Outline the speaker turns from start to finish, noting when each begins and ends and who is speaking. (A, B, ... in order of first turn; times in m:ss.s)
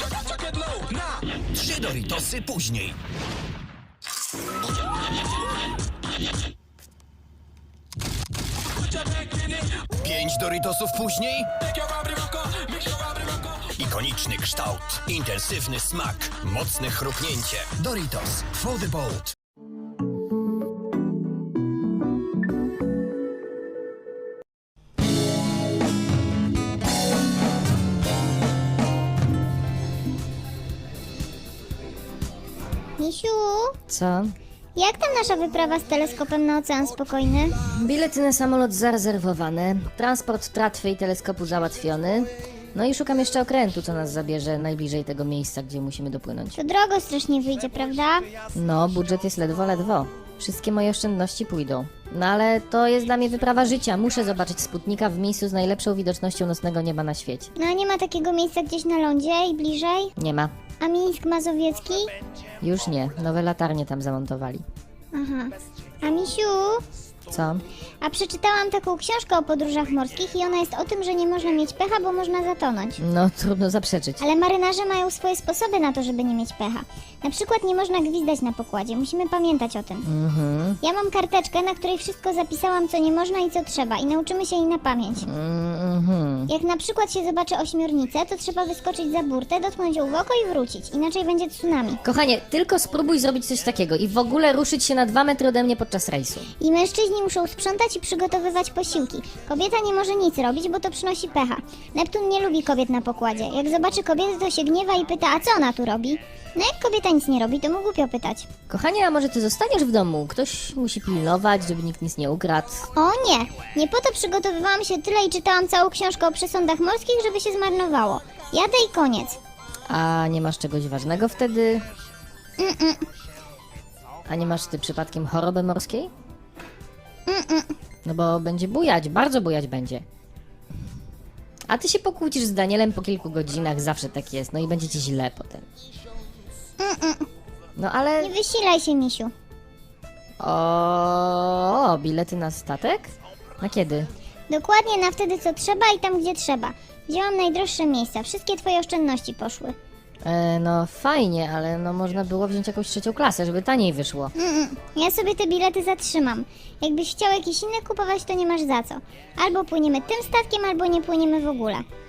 0:00.6-0:03.0 A
0:09.0-0:19.4 A
0:33.0-0:33.8 B
0:33.9-0:34.4 C
0:34.8-0:37.6 B
0:37.6-0:46.6 C
0:46.6-0:48.3 B
0:48.5-0:57.5 C
0:57.6-1:00.1 B
1:00.2-1:00.5 C
1:00.8-1:02.1 B
1:02.6-1:04.6 C
1:05.1-1:06.8 B
1:07.3-1:07.6 C
1:08.0-1:13.0 B
1:13.0-1:14.2 C
1:14.2-1:20.1 B
1:20.0-1:20.8 C
1:20.8-1:25.3 B
1:25.2-1:26.5 C
1:26.5-1:32.0 B
1:32.0-1:36.5 C
1:36.6-1:48.5 B
1:48.7-1:52.9 C
1:52.9-1:59.4 B
1:59.9-2:01.8 C
2:02.6-2:03.1 B
2:04.3-2:06.1 C
2:07.3-2:07.8 B
2:08.0-2:10.0 C
2:11.7-2:15.6 C
2:16.8-2:17.3 B
2:17.8-2:18.3 C
2:18.2-2:19.3 B
2:20.4-2:24.1 C
2:24.5-2:29.8 B
2:30.2-2:34.3 C
2:34.4-2:41.8 B